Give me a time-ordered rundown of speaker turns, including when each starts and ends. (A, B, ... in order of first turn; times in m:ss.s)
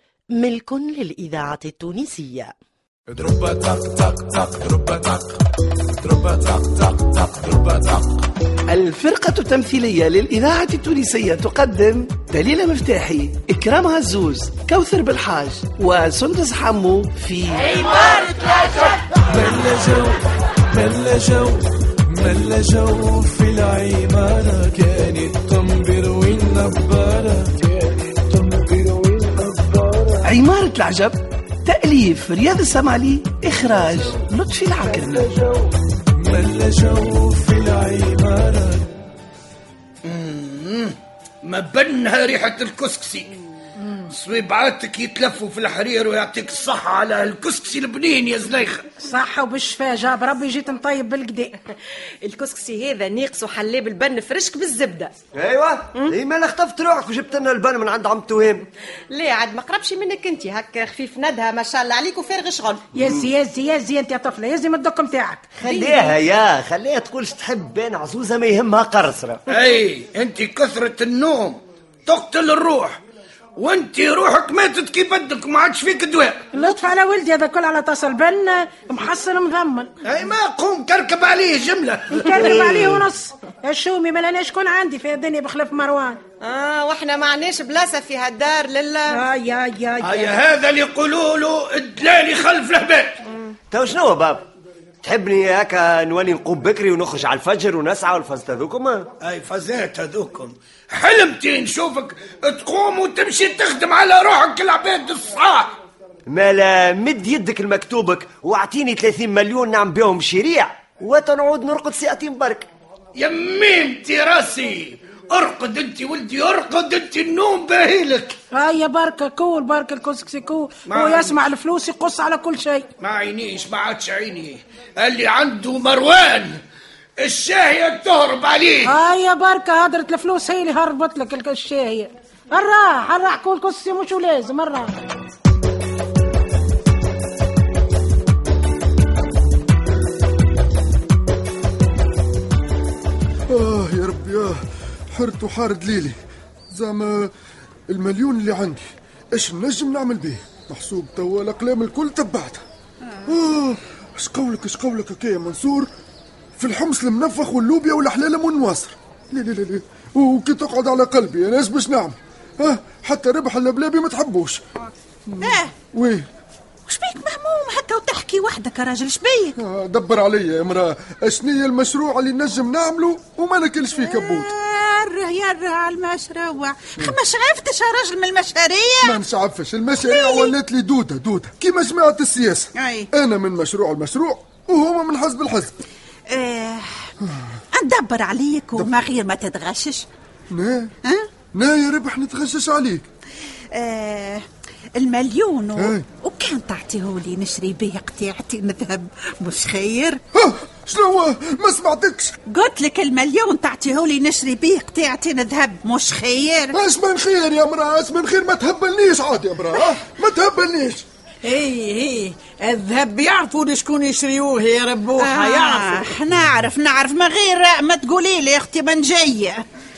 0:00.3-0:02.5 A
0:03.2-0:05.3 B
0:06.0-0:08.2 B
0:08.7-0:18.0 C
0:19.3-0:20.2 B
0:20.7-0:30.2 B
0:30.2-0:35.3 C
0:36.2-0:38.9 B
0:40.0-0:43.3 D
0:44.1-0:48.9 D
0:49.0-0:51.6 E
0:52.2-0:55.1 F
0:55.3-0:58.6 G
0:55.9-0:56.2 F
0:59.1-1:02.9 F
1:02.9-1:06.1 E
1:05.6-1:09.4 G
1:05.7-1:06.1 F
1:09.5-1:13.0 D
1:13.6-1:16.5 D
1:16.5-1:19.9 E
1:20.0-1:23.1 D
1:22.1-1:26.2 E
1:26.4-1:29.2 F
1:29.1-1:30.3 E
1:30.0-1:33.2 D
1:33.7-1:34.5 G
1:35.0-1:39.1 G
1:39.2-1:45.8 D
1:46.3-1:52.7 G
1:53.2-1:58.4 D
1:58.5-2:02.9 E
2:00.9-2:01.5 D
2:03.0-2:06.6 D
2:07.2-2:09.0 D
2:08.8-2:14.9 E
2:23.5-2:26.2 H
2:26.7-2:27.3 H
2:27.9-2:32.6 H
2:33.3-2:35.9 H
2:36.6-2:44.6 H
2:45.3-2:46.3 H
2:45.4-2:45.8 I
2:46.9-2:49.6 I
2:49.6-2:54.5 H
2:54.0-2:59.2 I
2:59.0-3:05.8 H
3:00.0-3:00.6 I
3:02.8-3:03.1 I
3:06.3-3:07.1 I
3:07.7-3:10.1 I
3:10.5-3:10.9 H
3:11.5-3:13.1 H
3:13.7-3:14.4 I
3:15.0-3:20.2 I
3:15.8-3:16.0 H
3:20.3-3:22.4 H
3:22.5-3:26.8 I
3:26.7-3:31.0 H
3:31.4-3:36.1 J
3:35.2-3:39.6 I